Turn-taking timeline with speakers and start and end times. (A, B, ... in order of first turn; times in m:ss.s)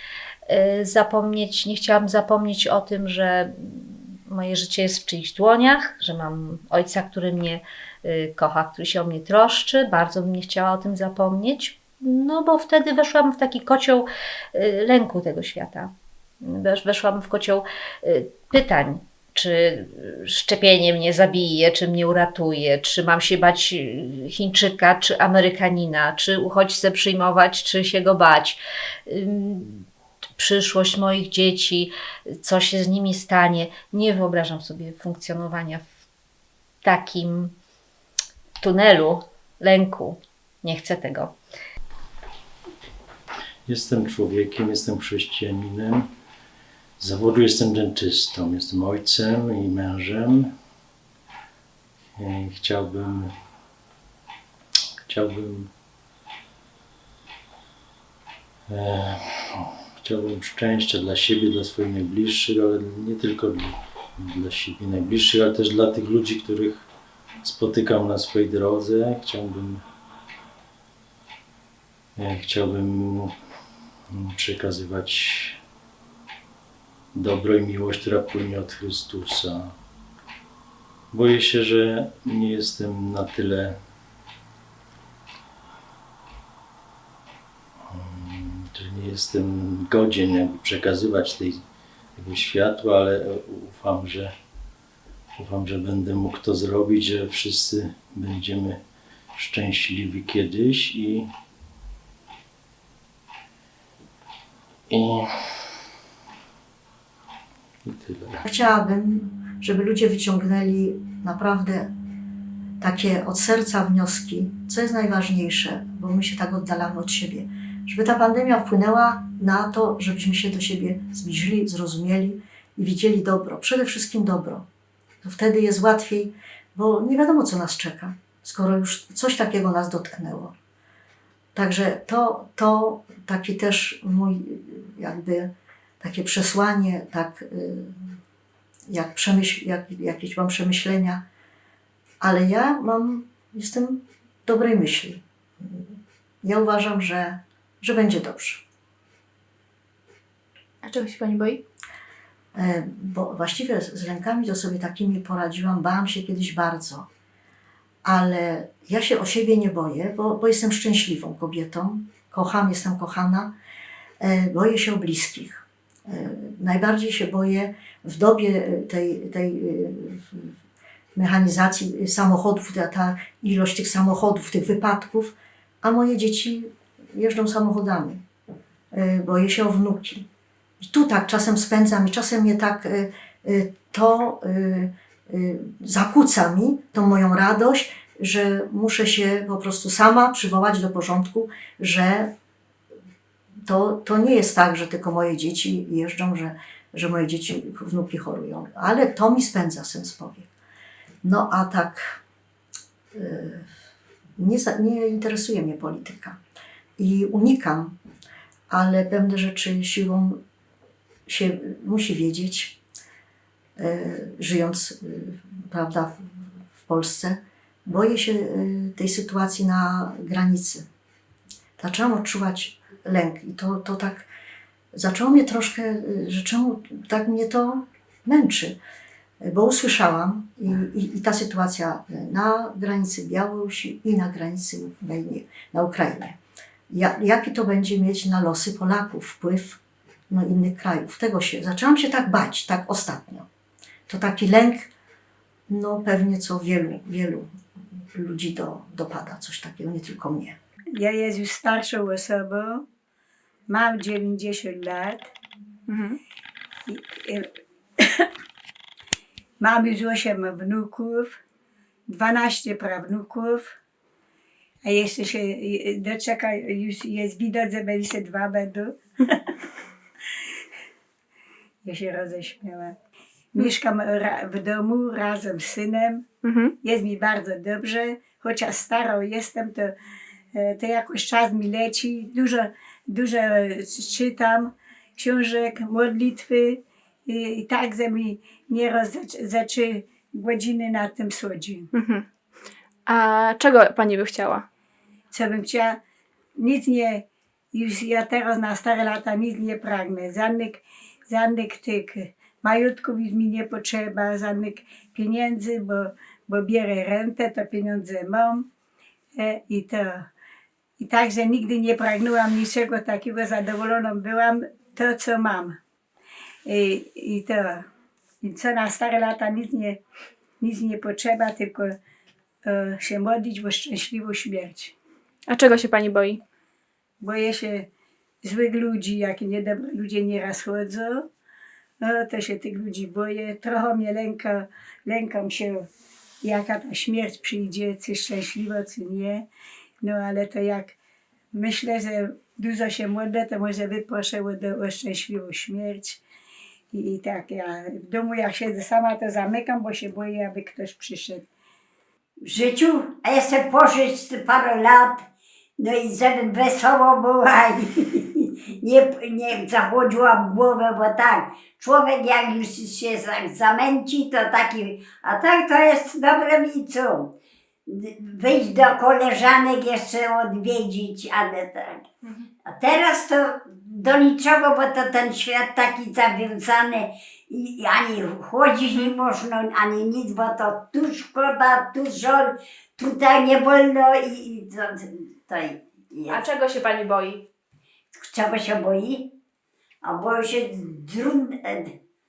0:00.5-0:29.8 A
0:30.4-0:35.8 A
0:36.8-0:37.5 A
0:38.6-0:41.3 A
0:43.7-0:46.0 B
0:47.0-0:50.5 B
0:52.2-0:53.3 B
0:55.1-0:55.7 B
0:58.7-1:06.9 B
1:07.4-1:09.8 B
1:12.2-1:13.3 B
1:14.1-1:15.6 B
1:17.1-1:19.7 B
1:21.1-1:23.7 B
1:27.9-1:31.6 B
1:32.2-1:34.3 B
1:35.4-1:38.8 B
1:39.4-1:41.2 B
1:44.9-1:45.2 B
1:47.9-1:48.4 B
1:48.4-1:51.9 C
1:52.8-2:04.6 C
2:05.2-2:10.5 C
2:11.5-2:18.0 C
2:18.9-2:21.2 C
2:22.2-2:25.9 C
2:26.4-2:28.6 C
2:30.8-2:31.6 D
2:32.5-2:37.1 C
2:38.0-2:43.5 C
2:44.2-2:50.5 C
2:51.1-2:58.2 C
2:58.9-3:00.2 C
3:00.8-3:12.3 C
3:13.6-3:20.5 C
3:21.2-3:22.2 C
3:23.1-3:23.7 C
3:24.4-3:26.4 C
3:27.0-3:28.0 C
3:28.7-3:30.4 C
3:31.3-3:32.8 C
3:33.8-3:40.8 C
3:41.8-3:44.3 C
3:44.9-3:48.8 C
3:49.4-3:56.4 C
3:56.9-4:03.4 C
4:04.1-4:04.9 C
4:05.7-4:07.5 C
4:08.1-4:10.6 C
4:10.9-4:12.8 E
4:13.7-4:15.3 E
4:15.9-4:16.1 D
4:16.9-4:17.4 E
4:19.6-4:21.3 E
4:22.1-4:23.7 E
4:24.8-4:29.0 E
4:31.8-4:32.9 E
4:33.5-4:36.2 E
4:36.4-4:36.7 D
4:36.8-4:39.9 E
4:40.5-4:51.9 E
4:51.9-4:52.2 D
4:53.1-4:54.6 D
4:55.3-4:56.0 E
4:56.6-5:08.6 E
5:09.3-5:10.3 E
5:11.0-5:15.8 E
5:16.6-5:17.8 E
5:18.4-5:20.0 E
5:20.6-5:22.0 E
5:22.6-5:24.9 E
5:25.5-5:26.4 D
5:27.2-5:27.9 E
5:28.4-5:31.3 E
5:32.0-5:35.8 E
5:36.4-5:39.4 E
5:40.0-5:40.9 E
5:41.5-5:46.2 E
5:46.9-5:51.4 E
5:52.5-5:55.2 F
5:55.8-6:07.3 F
6:07.9-6:12.0 F
6:12.6-6:26.4 F
6:26.3-6:27.4 D
6:28.2-6:29.3 F
6:30.0-6:31.9 F